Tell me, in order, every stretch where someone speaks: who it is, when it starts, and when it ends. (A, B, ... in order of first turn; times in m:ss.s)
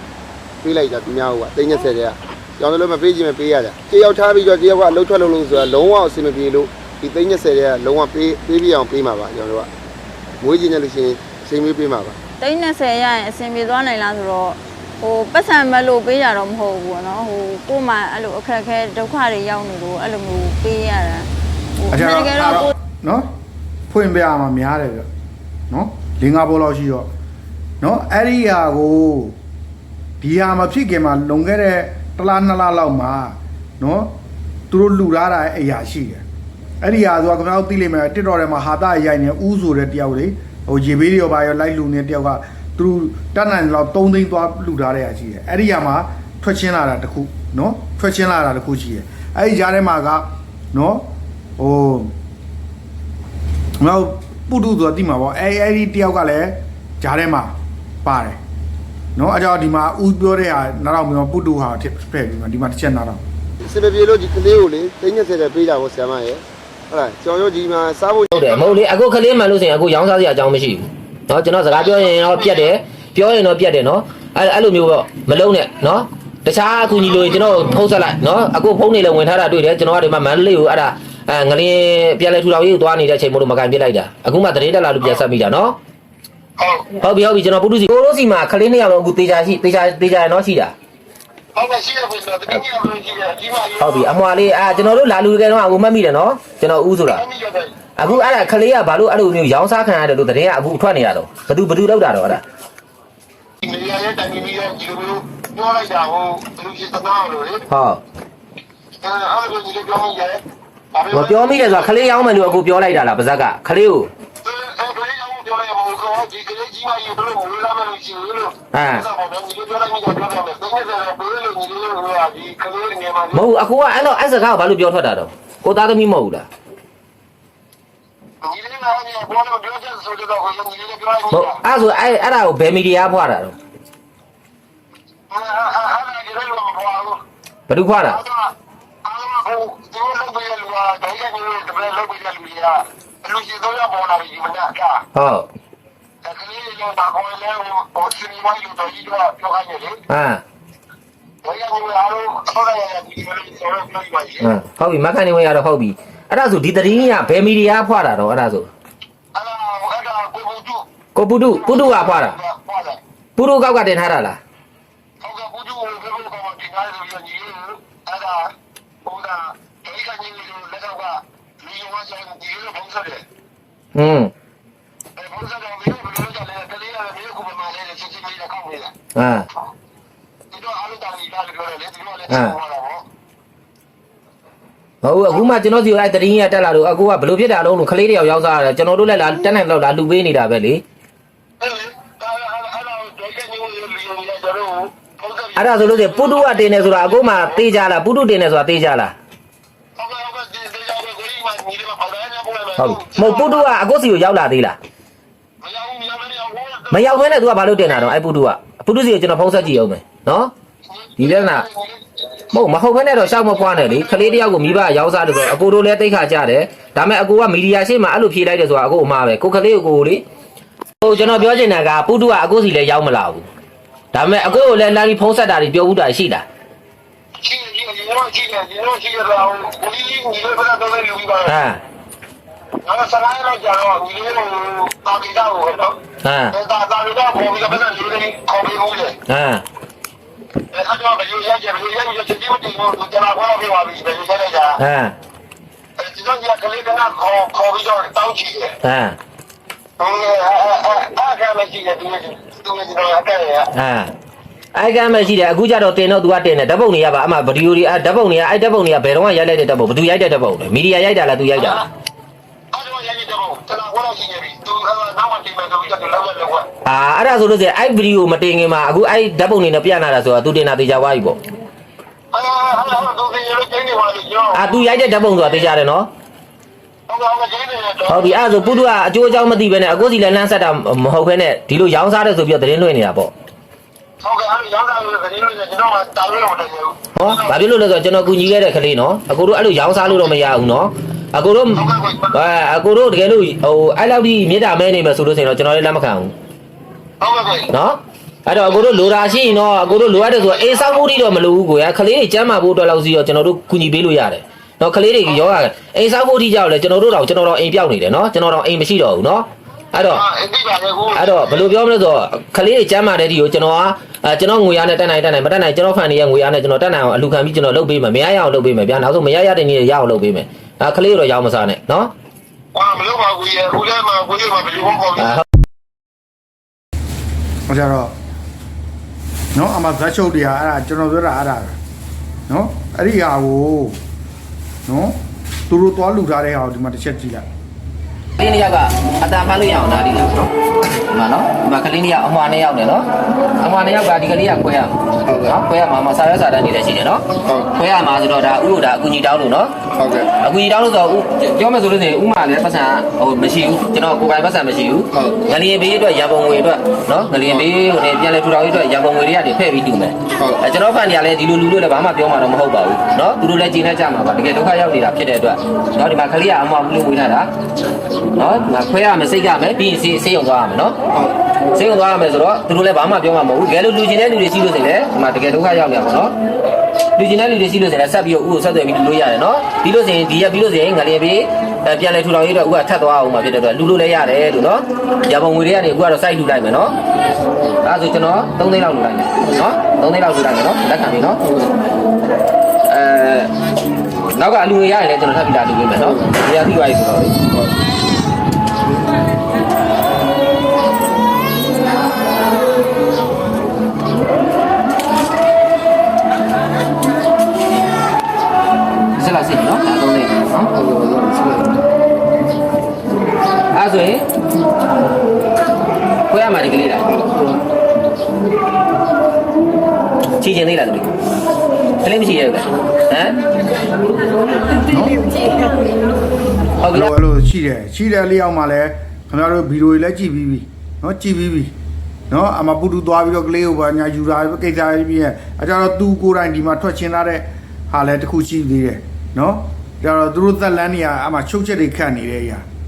0:00.6-0:09.7 A
0:10.4-0:12.2 A
0:12.4-0:22.7 B
0:21.9-0:23.3 C
0:23.9-0:25.1 C
0:25.7-0:27.1 C
0:27.8-0:29.3 C
0:30.2-0:34.1 C
0:34.7-0:36.2 C
0:36.8-0:51.0 C
0:51.6-0:52.1 C
0:53.8-0:58.4 C
0:59.2-1:03.2 C
1:03.6-1:08.6 A
1:08.3-1:25.8 D
1:11.8-1:12.7 E
1:26.6-1:26.9 E
1:27.0-1:30.7 D
1:31.5-1:34.1 E
1:33.8-1:37.2 D
1:37.0-1:38.4 E
1:38.0-1:42.4 D
1:43.6-1:47.6 E
1:47.7-1:48.0 D
1:49.0-1:50.4 E
1:50.9-1:52.6 E
1:51.1-1:54.1 D
1:54.4-2:03.5 E
1:58.7-1:59.1 D
2:03.3-2:06.5 D
2:08.4-2:11.6 E
2:11.3-2:13.6 D
2:15.3-2:17.2 E
2:17.7-2:18.2 D
2:18.0-2:18.5 E
2:19.0-2:25.0 E
2:25.1-2:25.5 D
2:26.2-2:30.0 E
2:30.1-2:30.4 D
2:31.4-2:34.5 E
2:34.4-2:38.7 D
2:39.3-2:40.8 E
2:41.1-2:42.4 D
2:41.4-2:43.0 E
2:43.4-2:44.4 D
2:45.2-2:48.5 E
2:49.0-2:53.2 E
2:53.9-2:54.3 D
2:55.2-2:58.9 E
2:59.1-2:59.5 D
3:00.5-3:03.0 E
3:02.3-3:02.6 D
3:05.0-3:10.8 D
3:11.6-3:17.7 E
3:15.6-3:19.1 D
3:20.0-3:23.7 E
3:22.8-3:24.8 D
3:25.6-3:28.1 E
3:26.9-3:30.5 D
3:30.9-3:32.6 E
3:31.2-3:31.7 D
3:32.5-3:40.2 D
3:41.0-3:43.4 D
3:41.0-3:41.4 E
3:44.1-3:46.4 D
3:47.4-3:51.6 E
3:51.4-3:51.8 D
3:52.8-3:56.0 E
3:56.2-3:56.5 D
3:56.5-3:59.2 E
3:59.3-3:59.6 D
4:00.7-4:04.8 E
4:04.8-4:05.1 D
4:06.0-4:08.7 E
4:08.8-4:09.2 D
4:10.0-4:13.7 E
4:13.7-4:14.1 D
4:14.7-4:21.8 D
4:21.5-4:21.8 E
4:22.7-4:26.7 E
4:26.8-4:31.4 D
4:32.3-4:35.7 E
4:34.5-4:36.1 D
4:37.1-4:38.9 E
4:38.1-4:43.3 D
4:44.2-4:47.6 E
4:47.1-4:56.3 D
4:51.7-4:52.4 E
4:57.2-4:57.7 E
4:57.7-5:10.2 D
4:58.5-5:01.1 E
5:10.0-5:11.7 E
5:11.1-5:22.1 D
5:22.7-5:25.4 E
5:25.2-5:25.4 D
5:27.7-5:28.1 C
5:29.5-5:31.8 C
5:32.5-5:34.0 C
5:34.8-5:35.2 C
5:35.7-5:37.4 C
5:38.4-5:40.5 D
5:41.1-5:43.0 D
5:43.6-5:49.7 D
5:45.3-5:45.5 A
5:50.0-5:50.3 A
5:50.4-6:07.5 D
6:08.4-6:11.0 D
6:11.7-6:16.3 D
6:17.2-6:26.9 D
6:27.8-6:31.6 D
6:32.9-6:33.5 D
6:34.3-6:37.3 D
6:49.2-6:50.7 D
6:53.7-6:54.2 D
6:56.3-6:57.1 D
7:00.4-7:01.1 D
7:02.0-7:03.4 D
7:04.9-7:05.2 C
7:06.8-7:07.1 D
7:06.9-7:11.7 C
7:12.3-7:22.6 C